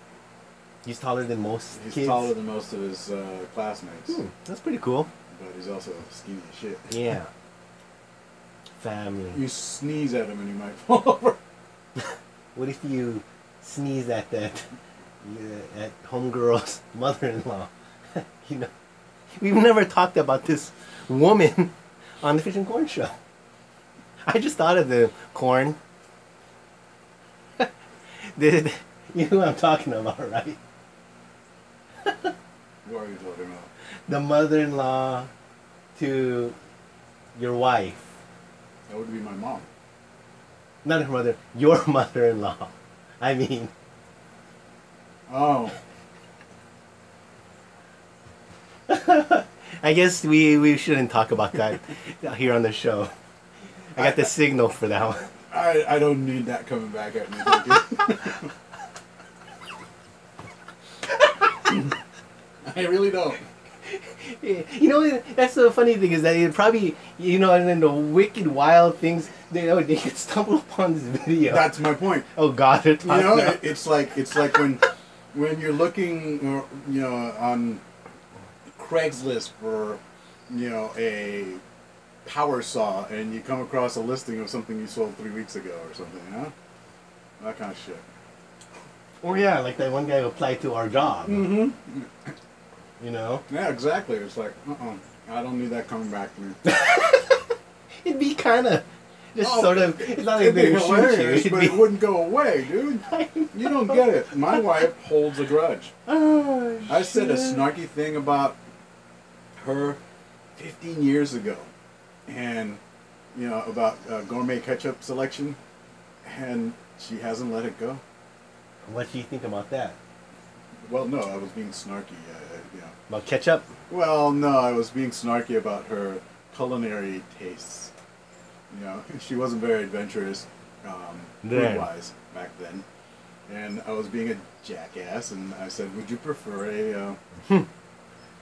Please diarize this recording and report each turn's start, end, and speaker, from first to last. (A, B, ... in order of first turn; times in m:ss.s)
0:00.8-0:02.3 A
0:01.7-0:04.2 B
0:04.1-0:05.1 A
0:05.3-0:07.0 B
0:06.9-0:07.3 A
0:08.8-0:09.4 A
0:09.3-0:11.4 B
0:12.6-0:14.7 A
0:15.2-0:18.7 A
0:19.4-0:23.1 A
0:24.3-0:25.8 A
0:28.4-0:30.6 A
0:32.0-0:32.3 A
0:32.8-0:33.7 B
0:34.1-0:35.3 A
0:36.0-0:36.6 A
0:37.4-0:38.2 A
0:38.9-0:39.7 B
0:40.8-0:43.7 A
0:45.3-0:45.8 B
0:48.9-0:53.1 A
0:53.9-0:55.3 A
0:54.0-0:54.3 B
0:55.5-0:58.5 B
1:02.7-1:03.4 B
1:03.8-1:13.7 A
1:11.4-1:12.3 B
1:13.0-1:17.8 B
1:18.8-1:21.6 B
1:22.2-1:26.5 B
1:27.4-1:28.0 B
1:29.2-1:31.6 A
1:31.1-1:32.3 B
1:33.0-1:33.4 A
1:33.5-1:36.7 B
1:36.6-1:37.5 A
1:38.0-1:42.0 A
1:39.4-1:45.9 B
1:43.1-1:44.9 A
1:46.1-1:47.7 A
1:46.9-1:48.6 B
1:49.6-1:50.0 B
1:50.6-1:51.7 B
1:52.3-1:52.8 B
1:53.3-1:55.6 B
1:56.2-1:58.0 B
1:58.9-2:00.0 A
2:00.9-2:02.9 B
2:03.1-2:03.7 A
2:03.9-2:07.9 B
2:08.7-2:12.8 B
2:11.4-2:11.9 A
2:13.5-2:17.2 B